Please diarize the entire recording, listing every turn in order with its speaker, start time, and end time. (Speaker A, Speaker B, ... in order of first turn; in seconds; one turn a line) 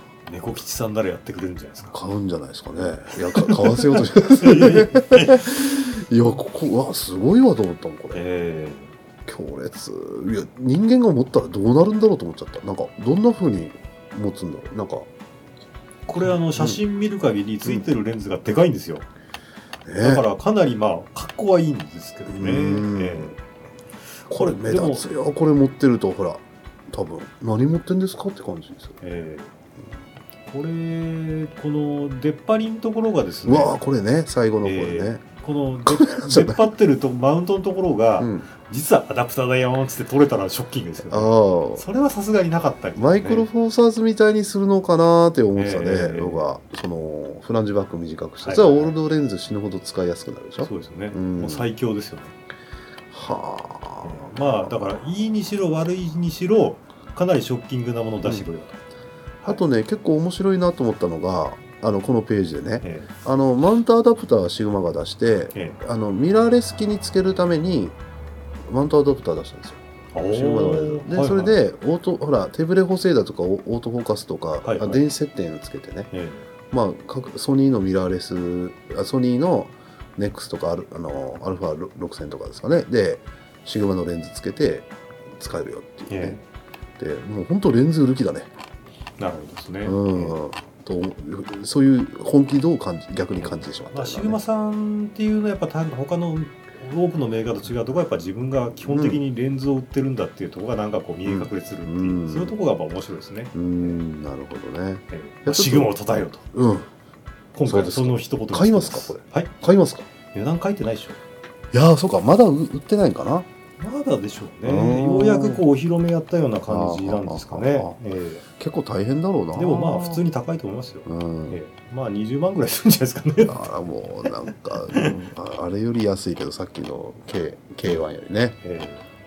Speaker A: 0.3-2.0
Speaker B: 1.9-8.2
Speaker A: 3.4-5.8
Speaker A: 8.1-8.9
Speaker B: 9.3-15.1
Speaker A: 16.1-19.1
Speaker B: 16.2-16.8
Speaker B: 19.9-20.3
Speaker A: 20.0-23.4
Speaker B: 22.2-23.3
Speaker A: 24.3-25.2
Speaker B: 24.3-29.0
Speaker A: 29.0-29.5
Speaker A: 30.5-33.8
Speaker B: 33.4-35.2
Speaker A: 34.6-43.5
Speaker B: 35.9-36.6
Speaker B: 38.2-38.5
Speaker B: 41.1-41.8
Speaker B: 43.0-51.7
Speaker A: 45.5-46.5
Speaker A: 48.4-49.0
Speaker A: 50.6-52.3
Speaker B: 53.1-54.7
Speaker A: 54.0-58.8
Speaker B: 59.5-68.0
Speaker A: 62.8-63.1
Speaker A: 65.5-65.8
Speaker B: 68.7-76.1
Speaker A: 70.1-71.6
Speaker A: 74.6-75.0
Speaker A: 76.1-76.5
Speaker B: 76.7-86.4
Speaker A: 86.1-86.4
Speaker B: 87.0-88.5
Speaker A: 89.2-90.4
Speaker B: 89.8-94.4
Speaker A: 93.4-104.0
Speaker B: 98.8-99.2
Speaker B: 101.2-102.5
Speaker B: 103.5-105.9
Speaker A: 105.1-106.5
Speaker B: 106.5-106.9
Speaker A: 107.5-109.5
Speaker B: 107.6-110.0
Speaker A: 110.3-111.2
Speaker B: 111.7-113.5
Speaker A: 113.8-118.4
Speaker B: 114.6-115.6
Speaker B: 116.7-118.0
Speaker B: 118.6-120.2
Speaker A: 119.5-123.7
Speaker B: 121.0-121.6
Speaker B: 123.5-128.6
Speaker A: 124.9-125.2
Speaker A: 128.6-129.0